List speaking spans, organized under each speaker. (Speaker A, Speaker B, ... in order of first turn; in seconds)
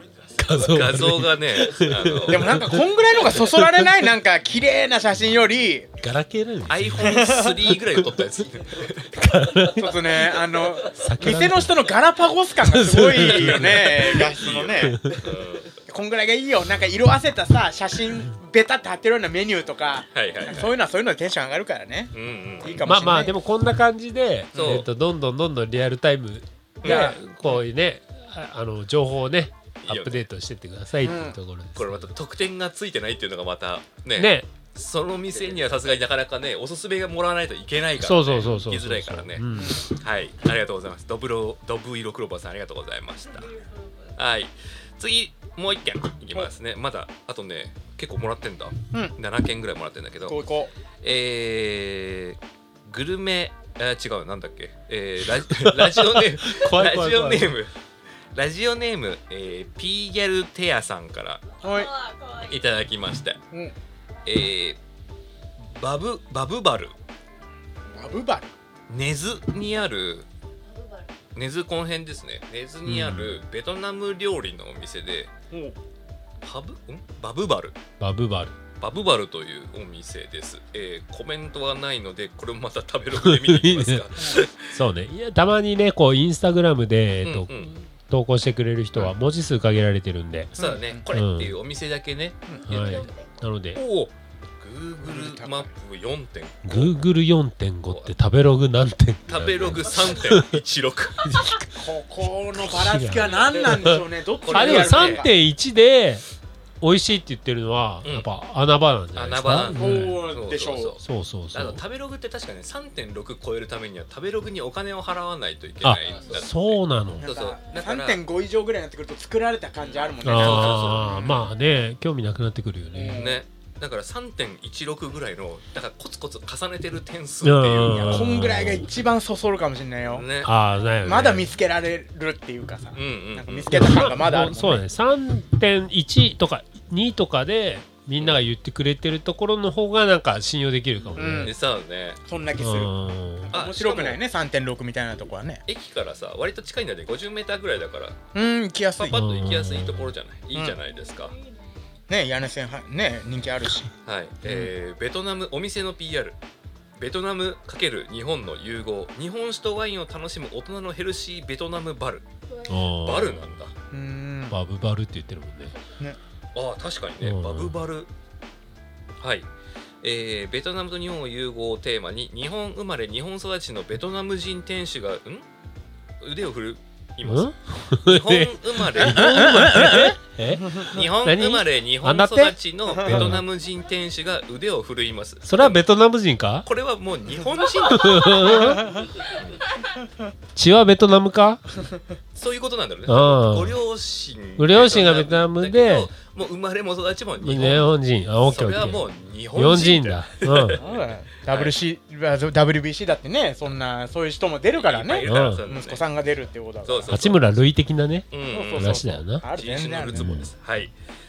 Speaker A: 0.3-2.8, 3.3-3.9, 6.0-7.3, 9.1-10.0, 10.9-11.8, 12.6-14.3, 14.8-15.2, 22.9-32.1, 34.1-34.5, 38.0-39.8, 55.5-57.5, 72.9-73.4, 78.0-78.5, 83.2-84.1, 84.7-90.5, 91.1-91.5, 92.7-93.8, 96.6-100.6, 101.2-101.8, 102.5-106.2, 106.8-110.2, 111.0-111.8, 115.8-117.3, 120.2-123.2, 127.4-128.9, 130.4-131.5, 133.7-141.5, 142.6-143.5, 149.1-150.1, 162.7-163.6, 164.5-165.7, 167.2-167.8, 177.2-183.4, 185.4-186.7, 187.9-188.8, 190.5-191.6, 193.1-193.8, 194.6-196.1, 197.4-200.8, 205.2-205.6, 207.1-209.4, 210.1-210.5
Speaker B: 0.5-2.6, 6.7-9.2, 13.1-15.8, 20.1-20.7, 22.1-22.9, 24.5-24.9, 26.8-27.2, 29.8-30.3, 31.8-43.5, 44.1-50.4, 51.0-57.7, 58.3-61.4, 62.1-63.4, 64.2-64.8, 65.6-66.9, 68.9-70.3, 71.3-75.3, 76.4-77.8, 78.8-84.7, 87.2-87.7, 90.5-93.1, 93.8-97.0, 97.9-98.1, 99.3-101.3, 104.4-105.2, 109.1-111.0, 111.5-118.2, 120.3-121.4, 123.1-128.3, 130.1-130.5, 132.9-133.9, 141.4-142.2, 143.5-144.2, 145.7-148.2, 149.0-151.4, 154.1-156.4, 157.0-162.2, 162.9-163.7, 166.5-168.1, 169.2-169.5, 170.0-175.5, 176.2-177.5, 178.0-179.6, 180.8-185.8, 186.6-189.6, 192.3-201.8, 204.8-206.0, 206.8-207.4, 208.3-210.9
Speaker C: 2.3-5.9, 7.0-7.8, 9.7-15.0, 15.9-23.4, 26.8-27.6, 31.0-31.4, 39.5-39.8, 50.2-50.7, 61.6-62.0, 67.9-68.5, 90.6-91.0, 95.0-95.7, 101.8-105.3, 109.7-111.0, 117.2-121.4, 122.9-123.4, 127.9-130.3, 131.0-134.8, 141.2-141.5, 142.3-145.6, 148.3-149.1, 152.1-153.9, 163.9-164.6, 179.0-180.9, 183.0-183.3, 200.8-207.2, 208.5-210.4